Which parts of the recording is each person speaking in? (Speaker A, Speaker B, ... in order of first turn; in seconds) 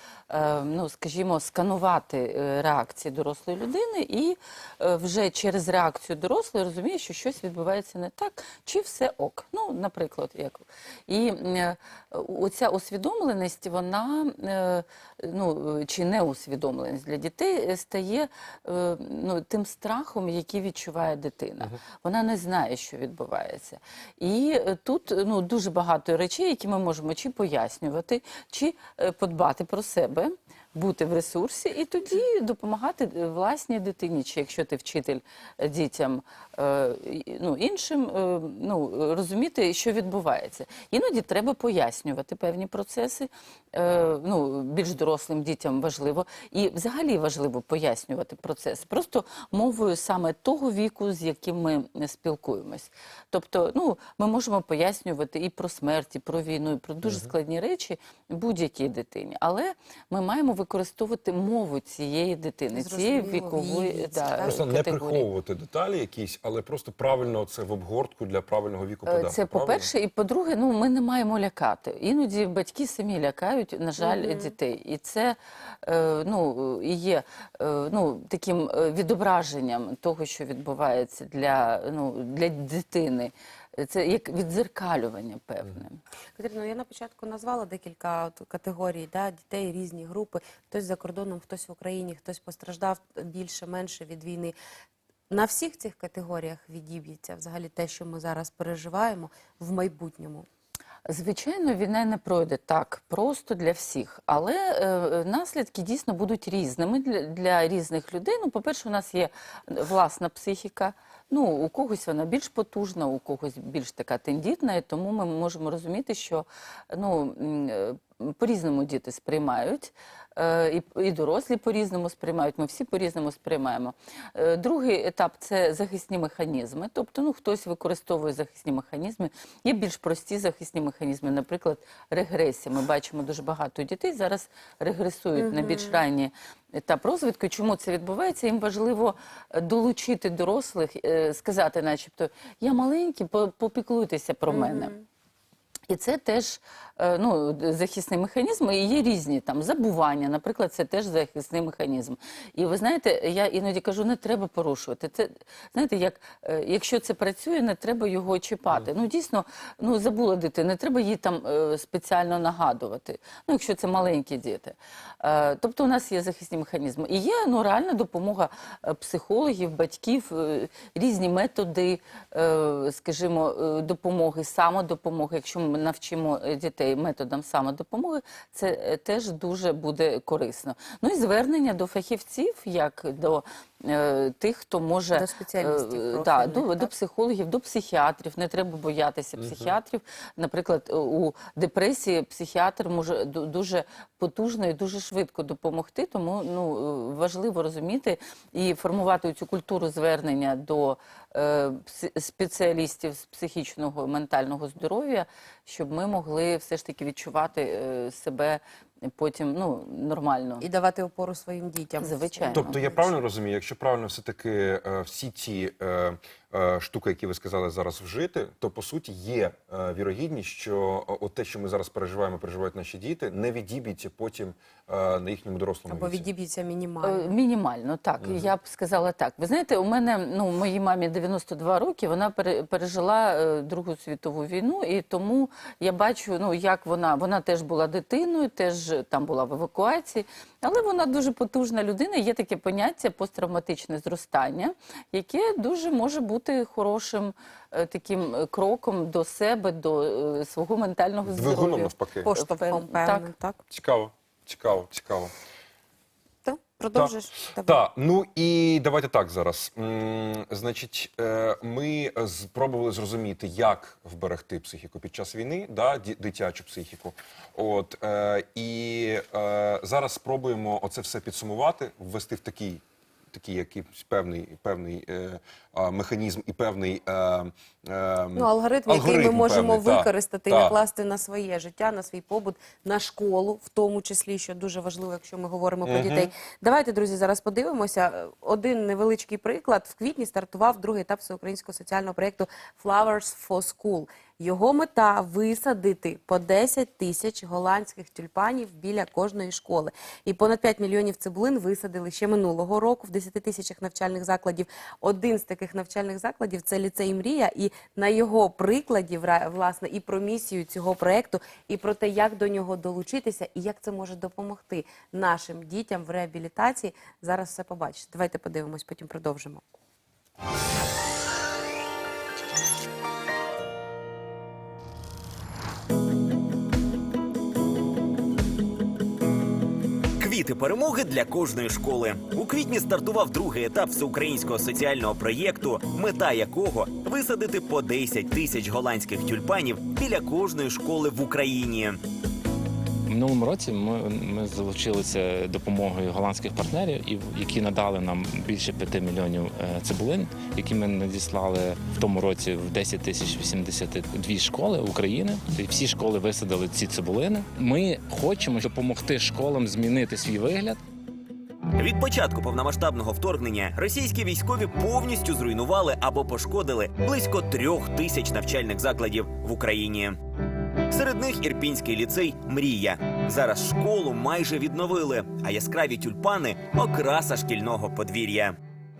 Speaker A: 0.3-65.3, 69.1-86.0, 101.1-144.9, 145.9-208.6, 209.1-210.6, 212.0-212.8, 227.0-253.3
Speaker B: 57.0-57.3, 64.4-69.9, 189.4-189.7, 212.5-226.3, 228.2-228.5, 251.2-252.3, 253.7-255.3, 256.9-280.8, 285.9-286.3
Speaker C: 62.7-64.6, 74.0-74.5, 86.4-94.5, 95.3-100.5, 135.4-136.0, 144.5-145.0, 185.2-186.9, 210.6-213.1, 225.9-227.3, 252.2-253.6, 256.4-257.8, 278.4-319.6
Speaker D: 330.2-342.0, 361.8-370.2, 370.9-378.6
Speaker E: 343.1-360.8